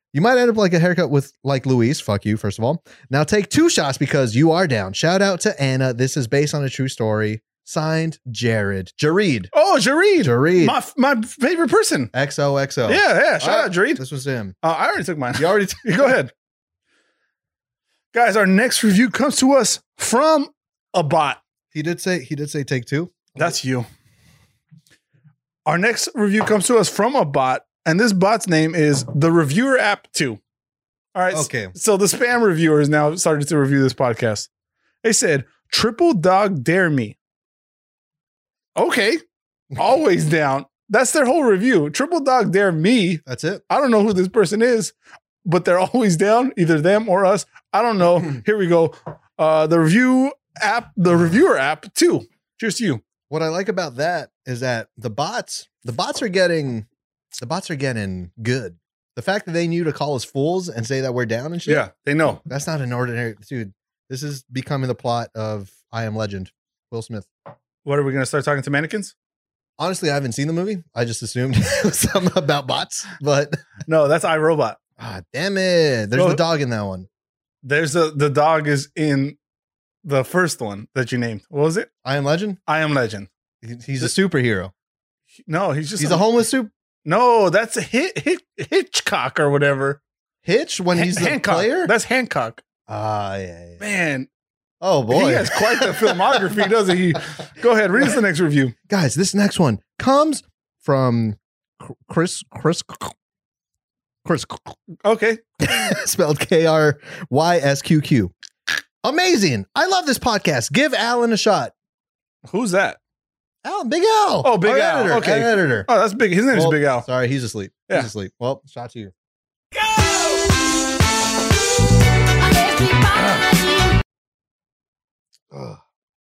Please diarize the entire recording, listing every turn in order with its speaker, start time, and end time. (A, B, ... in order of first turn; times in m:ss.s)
0:00.1-0:09.5 A
0:09.5-0:12.1 B
0:10.2-0:10.8 A
0:12.1-0:14.6 A
0:12.9-0:14.0 B
0:14.6-0:16.3 B
0:15.4-0:16.2 A
0:18.1-0:21.4 B
0:21.7-0:23.6 A
0:23.4-0:23.9 B
0:25.7-0:30.4 B
0:31.2-0:34.5 B
0:31.3-0:31.7 A
0:35.0-0:37.2 B
0:38.8-0:39.2 B
0:39.8-0:53.0 B
0:43.3-0:43.6 A
0:53.3-0:56.9 A
0:57.4-1:01.9 A
1:01.7-1:02.4 B
1:02.4-1:07.3 A
1:07.8-1:09.1 B
1:09.8-1:13.8 A
1:13.8-1:14.8 B
1:15.0-1:17.1 A
1:16.2-1:16.4 B
1:17.6-1:19.4 B
1:20.0-1:21.9 B
1:22.0-1:22.6 A
1:22.7-1:23.3 B
1:23.6-1:24.7 A
1:25.5-1:26.2 B
1:26.0-1:26.7 A
1:27.0-1:30.0 B
1:30.4-1:31.9 A
1:31.0-1:32.6 B
1:32.9-1:33.8 A
1:33.8-1:34.3 B
1:34.8-1:36.7 A
1:35.1-1:38.8 B
1:38.9-1:43.1 A
1:44.2-1:44.8 A
1:45.0-1:45.4 B
1:45.6-1:48.3 A
1:49.0-1:51.7 A
1:52.5-1:53.0 B
1:53.6-1:55.9 A
1:54.4-1:57.1 B
1:56.5-1:59.1 A
2:00.0-2:00.3 B
2:05.5-2:05.8 A